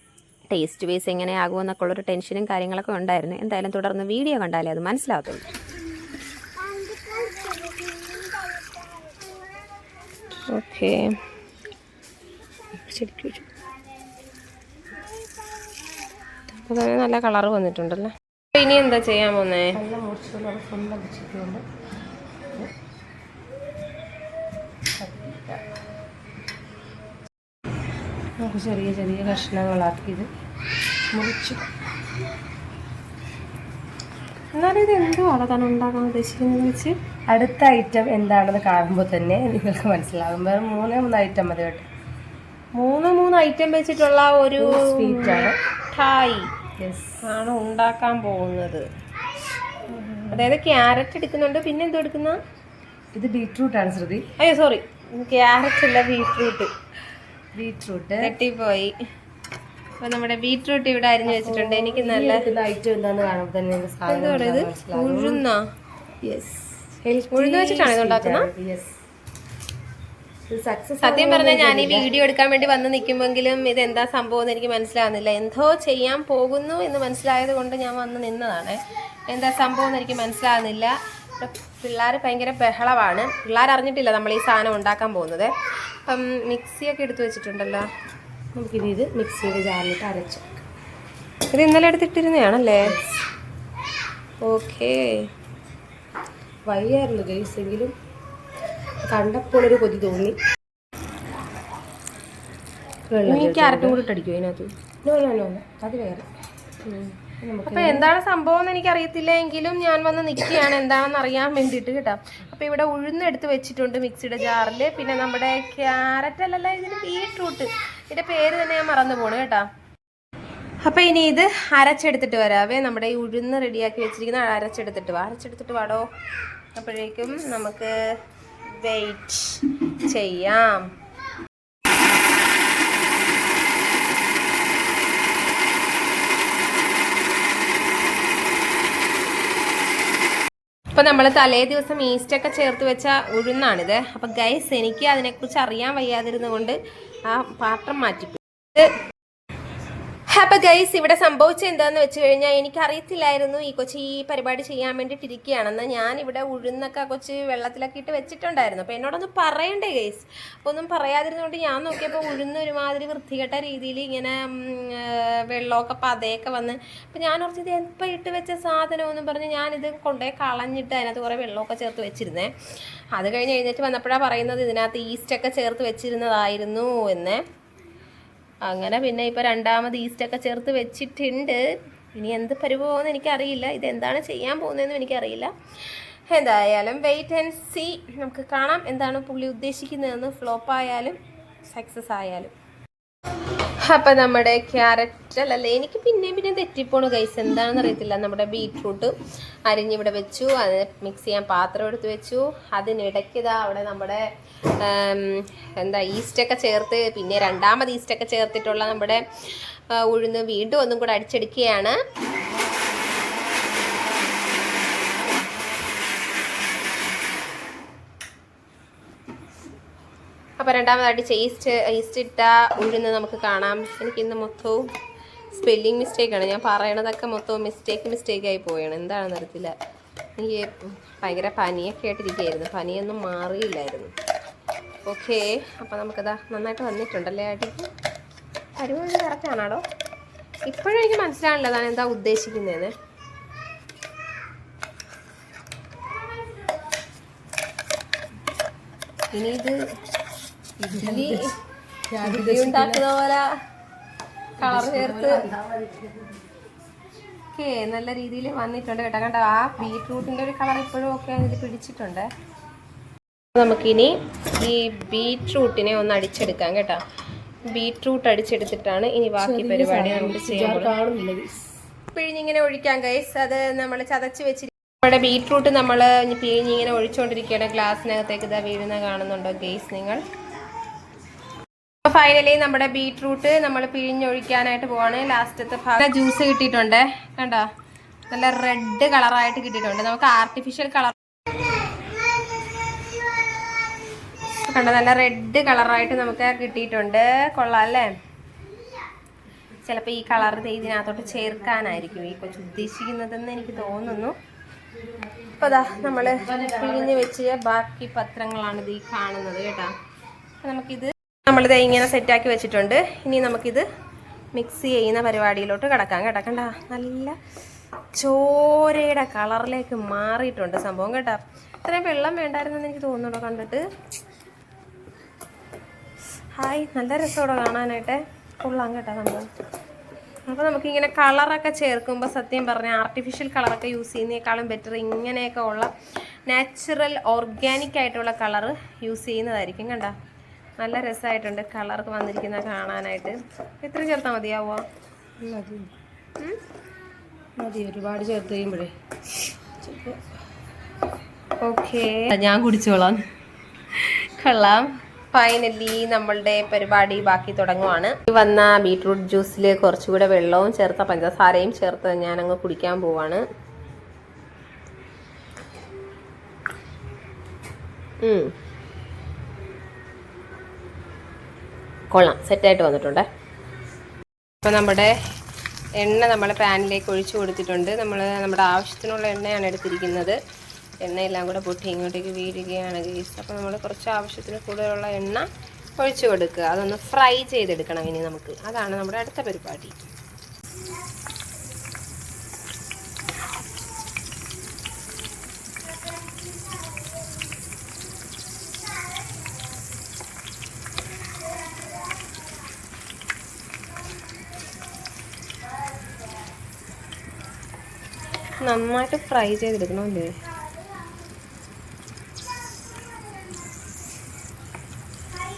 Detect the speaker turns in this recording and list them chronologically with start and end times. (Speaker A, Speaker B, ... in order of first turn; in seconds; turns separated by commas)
Speaker A: 0.5-5.4, Speaker B: 10.5-11.1, Speaker B: 12.9-13.5, Speaker B: 16.6-19.8, Speaker C: 19.8-21.6, Speaker C: 25.0-25.6, Speaker C: 28.4-30.3, Speaker C: 31.1-31.6, Speaker B: 34.5-36.9, Speaker C: 37.3-41.9, Speaker B: 42.8-46.5, Speaker C: 44.6-45.5, Speaker C: 46.8-47.2, Speaker B: 47.2-48.9, Speaker C: 50.1-50.4, Speaker B: 50.3-52.4, Speaker C: 53.1-54.2, Speaker B: 54.4-56.7, Speaker C: 57.5-58.3, Speaker B: 58.2-58.9, Speaker B: 60.0-62.4, Speaker C: 61.3-65.4, Speaker B: 64.1-65.6, Speaker C: 66.3-69.0, Speaker B: 67.3-68.5, Speaker C: 70.5-72.1, Speaker B: 71.0-78.8, Speaker B: 79.3-85.5, Speaker B: 86.1-87.8, Speaker C: 88.5-90.6, Speaker B: 91.5-92.8, Speaker C: 92.8-93.2, Speaker B: 94.5-95.0, Speaker C: 96.7-97.9, Speaker C: 99.1-100.4, Speaker C: 103.1-104.0, Speaker B: 103.2-104.7, Speaker C: 105.0-106.3, Speaker C: 107.4-108.1, Speaker B: 107.7-119.6, Speaker B: 120.8-126.0, Speaker B: 126.8-127.9, Speaker B: 128.8-130.8, Speaker B: 141.0-146.8, Speaker B: 147.3-148.9, Speaker B: 150.3-172.5, Speaker B: 173.2-177.4, Speaker B: 178.7-181.6, Speaker B: 182.2-185.5, Speaker B: 186.3-191.2, Speaker B: 191.7-192.5, Speaker B: 193.9-199.1, Speaker B: 199.7-204.2, Speaker B: 204.8-209.2, Speaker B: 209.9-212.0, Speaker B: 220.6-224.8, Speaker B: 225.6-229.7, Speaker B: 230.4-234.1, Speaker B: 235.1-237.9, Speaker B: 238.8-239.8, Speaker B: 240.7-242.9, Speaker B: 249.3-249.8, Speaker C: 250.8-251.5, Speaker B: 250.9-251.4, Speaker C: 252.1-253.1, Speaker B: 252.2-253.5, Speaker B: 254.6-255.4, Speaker C: 254.6-256.4, Speaker B: 257.6-262.3, Speaker B: 263.6-264.1, Speaker B: 264.6-267.0, Speaker B: 267.7-270.9, Speaker C: 269.4-271.7, Speaker B: 272.1-280.2, Speaker B: 282.1-287.6, Speaker B: 288.3-291.1, Speaker B: 294.7-298.1, Speaker B: 299.8-304.4, Speaker B: 305.6-309.9, Speaker C: 305.6-307.3, Speaker B: 310.6-313.9, Speaker B: 314.6-317.4, Speaker B: 318.2-323.8, Speaker B: 326.6-329.5, Speaker B: 330.5-335.9, Speaker B: 336.5-340.1, Speaker B: 340.8-344.8, Speaker C: 345.4-345.9, Speaker C: 347.6-348.9, Speaker C: 349.8-350.2, Speaker B: 351.6-353.2, Speaker B: 354.0-363.4, Speaker B: 368.2-368.5, Speaker B: 372.1-373.2, Speaker B: 374.6-375.1, Speaker B: 376.0-380.4, Speaker B: 381.1-385.5, Speaker B: 386.0-390.0, Speaker B: 408.6-410.3